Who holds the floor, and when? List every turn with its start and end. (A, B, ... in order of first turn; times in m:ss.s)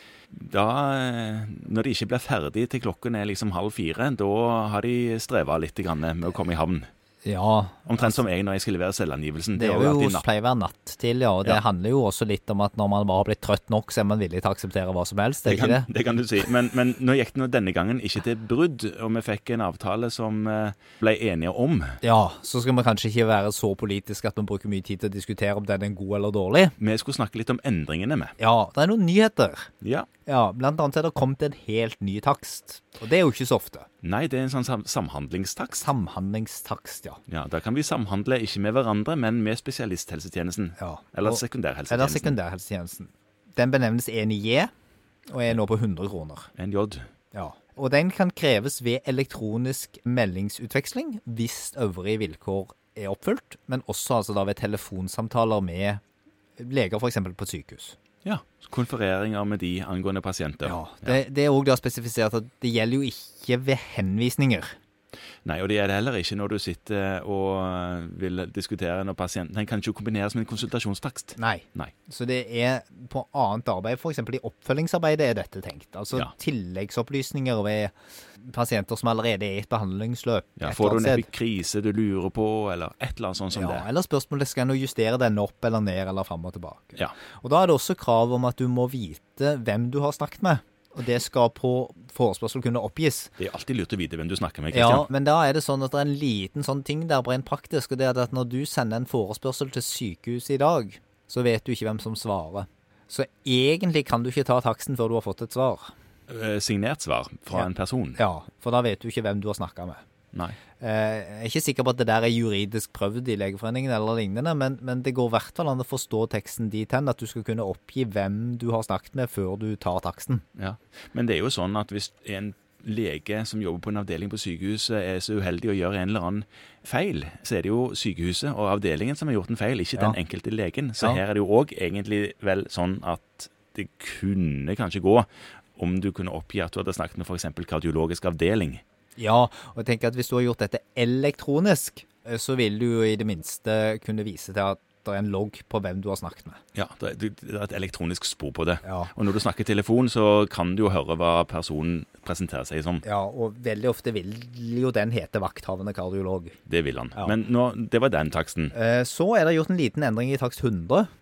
0:00.3-0:06.9 A
0:07.2-0:08.2 B
0:07.8-0:10.2 A
0:09.6-0:15.9 B
0:15.4-0:22.0 A
0:22.0-0:26.7 B
0:26.8-0:28.3 A
0:28.4-0:29.7 B
0:29.8-0:30.1 A
0:30.2-0:33.9 B
0:34.0-0:35.9 A
0:35.8-0:37.2 B
0:37.3-0:42.4 A
0:40.8-0:44.7 B
0:45.3-0:46.5 B
0:46.6-0:47.1 A
0:47.3-0:56.0 B
0:56.6-0:58.0 B
0:58.2-1:01.2 A
1:00.6-1:04.8 B
1:05.4-1:11.9 A
1:11.4-1:21.3 B
1:20.6-1:23.8 A
1:23.5-1:33.3 B
1:33.4-1:35.1 A
1:34.7-1:45.9 B
1:46.3-1:48.2 A
1:47.5-1:50.0 B
1:50.3-1:50.6 A
1:50.8-2:00.4 B
2:00.6-2:18.8 A
2:19.2-2:26.6 B
2:26.7-2:33.0 A
2:28.8-2:29.1 B
2:33.0-2:36.6 B
2:36.7-2:38.7 A
2:38.7-2:41.1 B